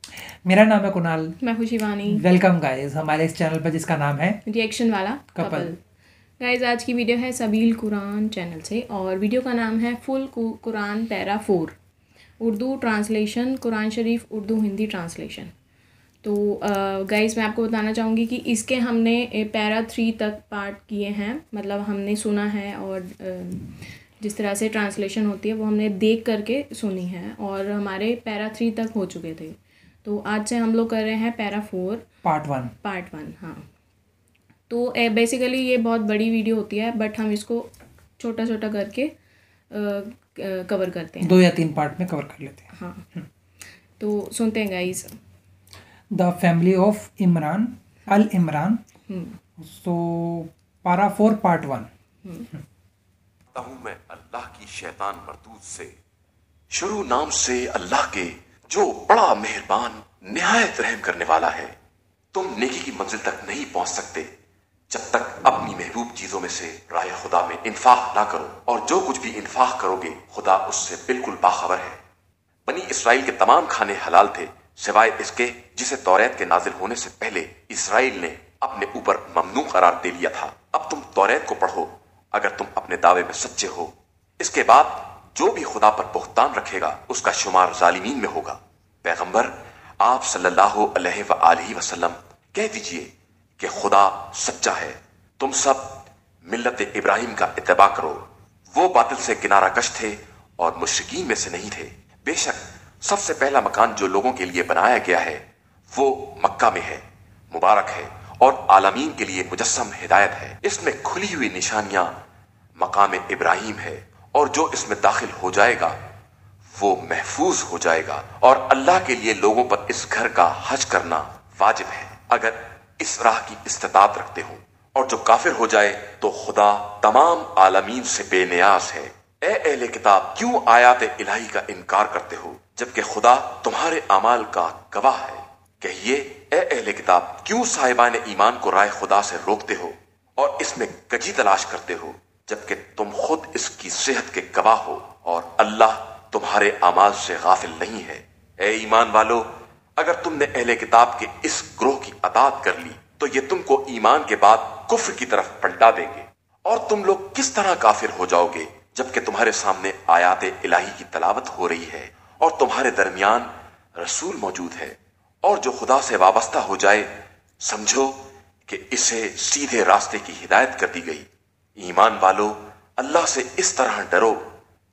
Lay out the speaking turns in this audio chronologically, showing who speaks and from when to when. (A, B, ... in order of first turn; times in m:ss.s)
0:00.4-0:01.4 A
0:01.4-0:02.2 B
0:02.0-0:04.4 A
0:04.4-0:05.8 B
0:05.4-0:05.7 A
0:06.4-0:11.8 B
0:12.4-0:15.5 B
0:16.2-0:32.1 B
0:32.2-0:32.7 A
0:32.8-0:33.7 B
0:34.7-0:39.1 B
0:39.7-0:41.4 B
0:41.2-0:43.2 A
0:42.7-0:43.0 B
0:44.0-0:45.1 B
0:46.1-0:48.8 A
0:49.1-0:49.4 B
0:49.6-0:51.9 A
0:52.2-0:52.5 B
0:53.5-0:55.9 C
0:56.7-1:01.7 C
1:02.3-1:04.3 C
1:04.9-1:12.0 C
1:12.6-1:52.1 C
1:52.8-1:56.0 C
1:56.8-2:51.3 C
2:51.8-2:54.5 C